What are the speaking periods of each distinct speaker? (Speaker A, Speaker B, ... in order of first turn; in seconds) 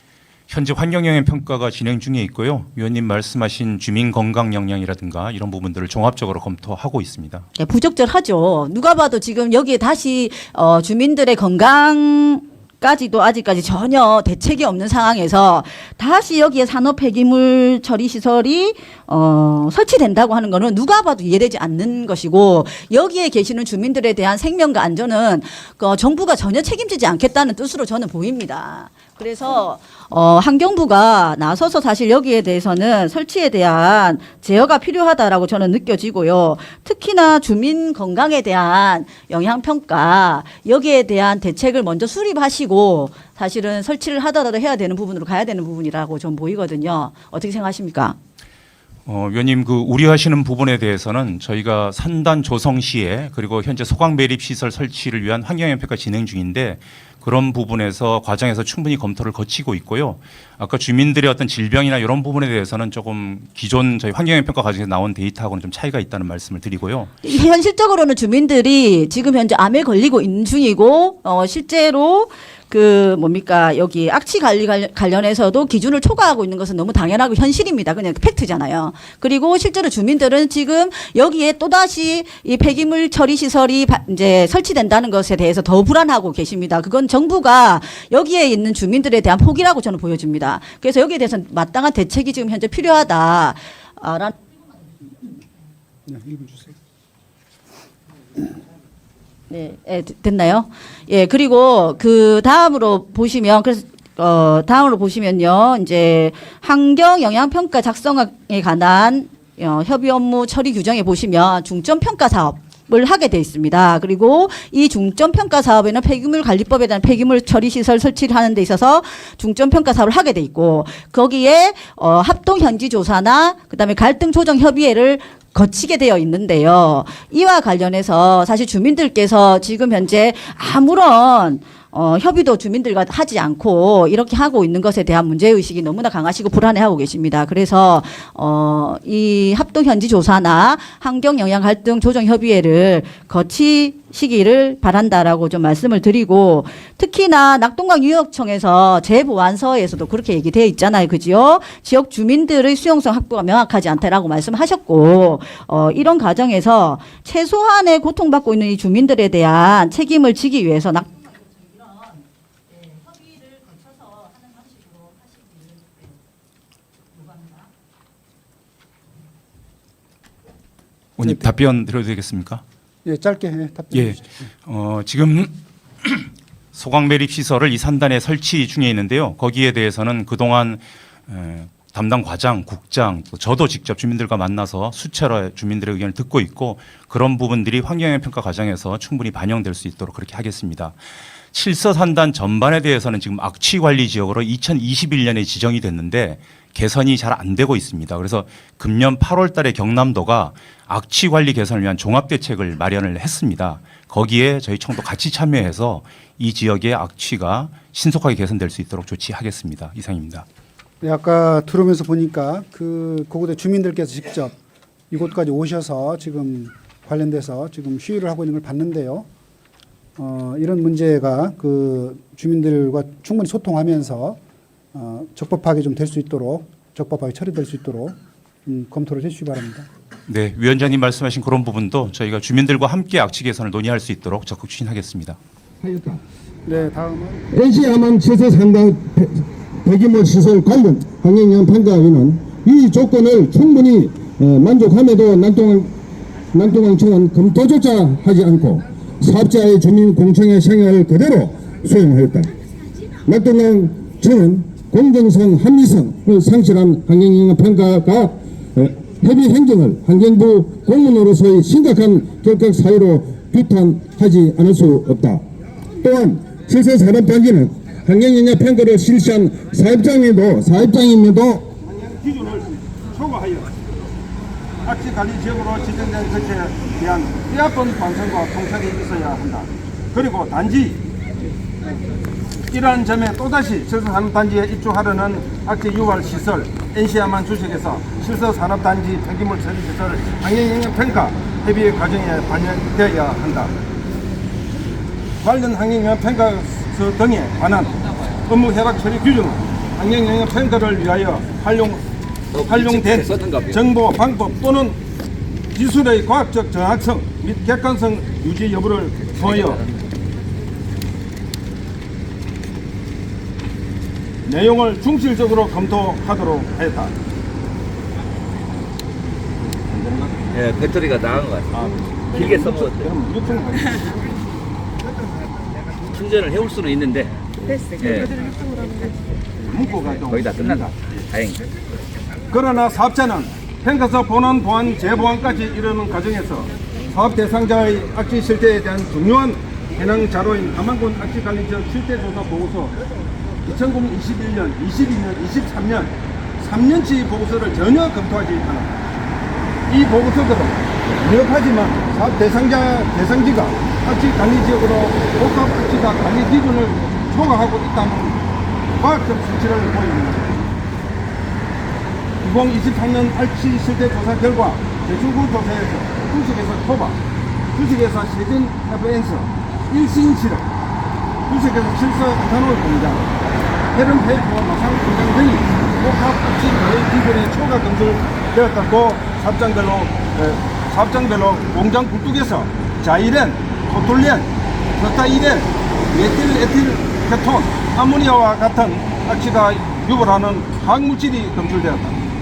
Speaker A: 0.5-7.5, 49.0-67.1, 171.2-172.6, 173.9-191.0, 191.5-210.4, 230.3-235.4
Speaker B: 7.6-48.2, 67.2-94.3, 99.5-161.3
Speaker C: 96.1-96.7, 171.2-171.5, 173.0-174.3, 211.0-214.6, 215.1-219.3, 220.2-224.4, 224.9-229.9, 236.7-237.4
Speaker D: 235.9-236.2, 239.9-240.2, 240.8-241.2, 243.1-243.4, 248.1-248.8, 271.8-273.7, 274.8-281.0, 282.7-293.7, 295.4-297.9, 298.5-302.0, 302.6-305.0, 305.7-309.8, 314.4-317.1, 319.9-320.8, 321.7-324.1, 328.0-328.3, 329.6-331.0, 332.5-342.9, 343.6-348.9, 349.9-358.4, 359.0-360.7, 362.4-367.2, 367.7-370.7, 371.5-373.3, 373.9-392.1
Speaker E: 237.5-245.9, 246.5-248.6, 249.3-252.3, 253.3-258.4, 259.0-265.4, 266.0-271.7
Speaker F: 302.5-303.8, 320.5-323.1, 326.1-327.3, 328.0-328.3, 330.2-331.6